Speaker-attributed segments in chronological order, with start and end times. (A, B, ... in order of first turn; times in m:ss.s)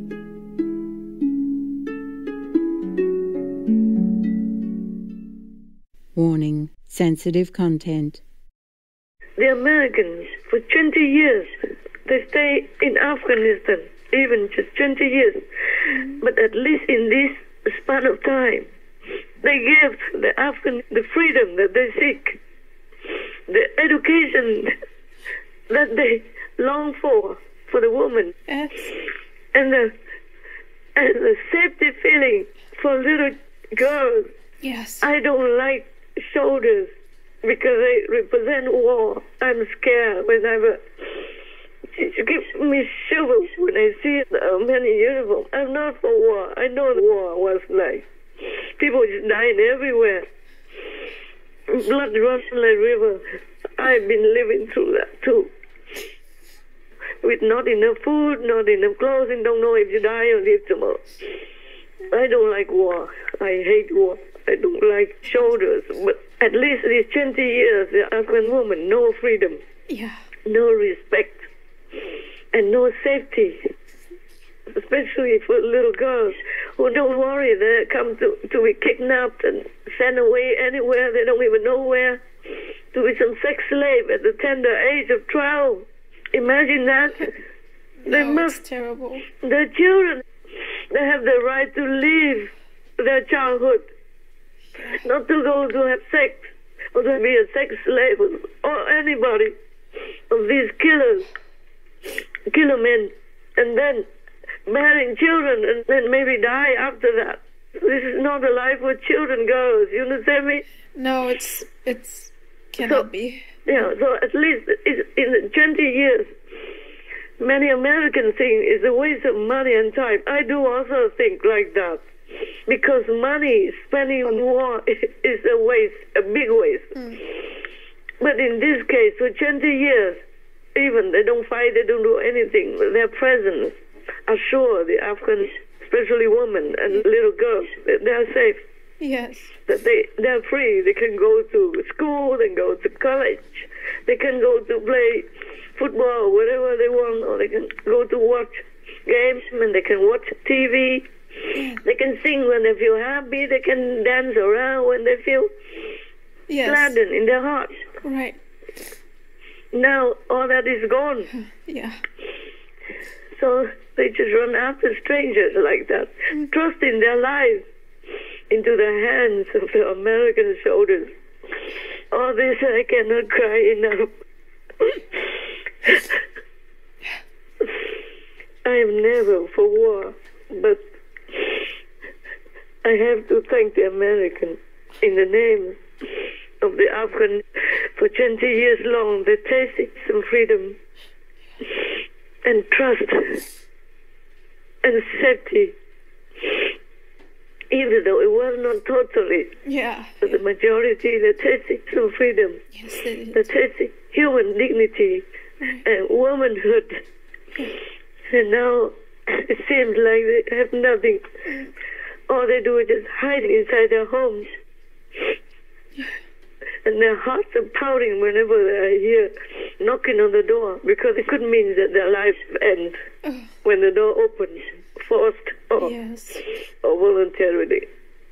0:06.2-0:08.2 A
0:09.4-0:11.5 B
0:12.0-0:18.7 B
0:15.9-0:16.2 C
0:19.4-0:22.4 B
0:23.5-0:24.7 B
0:25.7-0:28.3 B
0:28.5-0:28.9 C
0:29.5-0:29.9 B
0:31.0-0:34.3 B
0:34.6-0:35.1 C
0:35.0-0:41.3 B
0:41.9-0:48.0 B
0:48.8-0:50.3 B
0:51.7-0:55.5 B
0:57.2-1:01.2 B
1:02.1-1:09.6 B
1:09.9-1:10.2 C
1:10.4-1:11.5 B
1:12.5-1:13.7 B
1:14.7-1:22.2 B
1:22.9-1:27.3 B
1:28.0-1:29.2 C
1:28.1-1:28.6 B
1:29.3-1:30.2 B
1:30.9-1:33.9 B
1:34.9-1:39.5 B
1:40.3-1:41.3 B
1:42.5-1:44.1 B
1:44.7-1:50.6 B
1:51.0-1:53.9 C
1:52.8-1:53.1 B
1:53.6-1:56.3 B
1:57.4-2:02.0 B
2:02.7-2:07.5 B
2:08.2-2:10.2 B
2:10.8-2:18.6 B
2:19.0-2:19.5 C
2:19.7-2:31.1 B
2:31.6-2:31.8 C
2:31.8-2:35.5 B
2:36.5-2:37.0 C
2:36.6-2:37.9 B
2:38.0-2:38.4 C
2:39.7-2:41.3 B
2:41.6-2:42.0 C
2:43.3-2:47.7 B
2:48.5-2:51.1 B
2:52.1-2:54.1 B
2:54.8-2:56.2 B
2:58.6-3:01.7 B
3:02.8-3:05.8 B
3:06.6-3:10.8 B
3:11.6-3:13.4 B
3:14.8-3:15.7 B
3:17.7-3:19.6 B
3:19.6-3:20.4 C
3:20.2-3:22.7 B
3:22.7-3:23.6 C
3:23.3-3:25.2 B
3:25.8-3:27.0 B
3:28.3-3:31.4 B
3:32.3-3:34.5 B
3:36.8-3:43.0 B
3:43.6-3:45.9 B
3:45.8-3:46.4 C
3:46.7-3:47.9 B